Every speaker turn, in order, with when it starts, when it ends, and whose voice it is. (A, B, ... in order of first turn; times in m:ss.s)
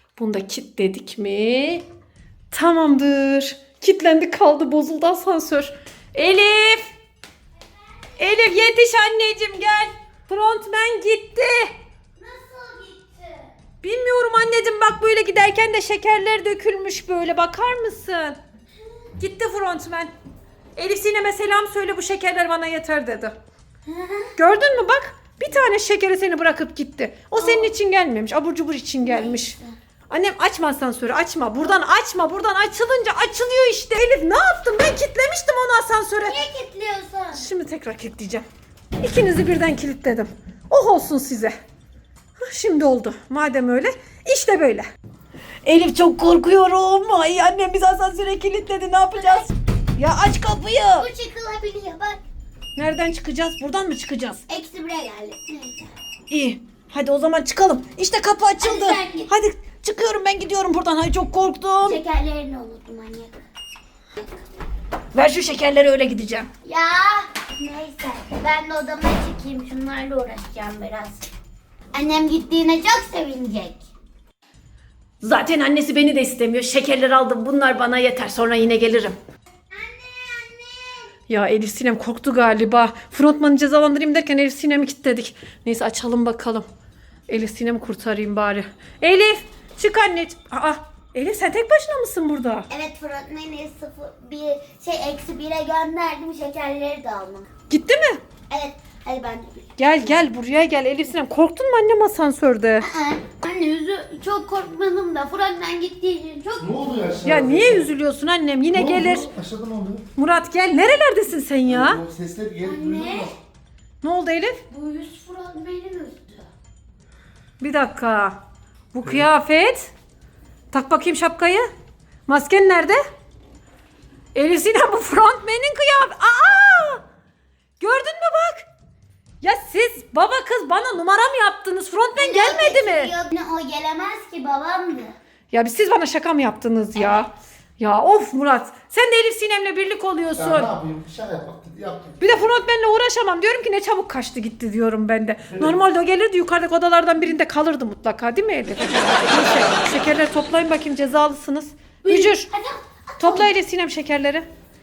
0:00.2-0:01.8 A
0:02.5-0:06.9 A
0:08.2-0:11.7 A
0:12.2-0:13.5 B
0:13.8-0:18.4 A
0:19.2-0:20.1 A
0:20.8-0:23.4 A
0:23.9-0:24.3 B
0:24.4-0:29.6 A
0:27.4-0:27.7 B
0:29.0-0:29.7 B
0:30.1-0:36.4 A
0:36.3-0:37.4 B
0:37.3-0:38.4 A
0:39.0-0:41.6 A
0:42.4-0:44.9 A
0:45.6-0:51.1 A
0:49.2-0:49.5 B
0:51.0-0:52.2 B
0:52.8-0:54.4 A
0:54.5-0:55.9 B
0:56.3-1:02.0 A
0:58.6-0:59.3 B
1:01.8-1:03.4 B
1:05.1-1:06.5 A
1:06.6-1:11.3 B
1:11.9-1:13.8 B
1:15.2-1:19.2 A
1:19.7-1:21.1 B
1:21.3-1:26.6 A
1:27.3-1:32.7 A
1:32.7-1:37.5 B
1:37.7-1:38.2 A
1:38.5-1:40.3 B
1:39.8-1:42.9 A
1:42.8-1:46.8 B
1:46.6-1:47.9 C
1:47.2-1:49.3 A
1:48.7-1:50.0 C
1:50.2-1:52.0 A
1:51.6-1:53.3 C
1:52.6-1:53.4 B
1:54.0-1:54.6 A
1:54.7-1:56.5 B
1:57.6-1:58.4 A
1:58.9-1:59.9 A
2:00.7-2:01.7 A
2:02.3-2:03.0 A
2:04.3-2:07.0 A
2:07.8-2:08.6 A
2:09.4-2:13.1 A
2:12.2-2:15.1 B
2:15.5-2:20.7 A
2:20.4-2:22.4 C
2:22.2-2:32.5 A
2:32.0-2:33.5 B
2:33.2-2:34.4 A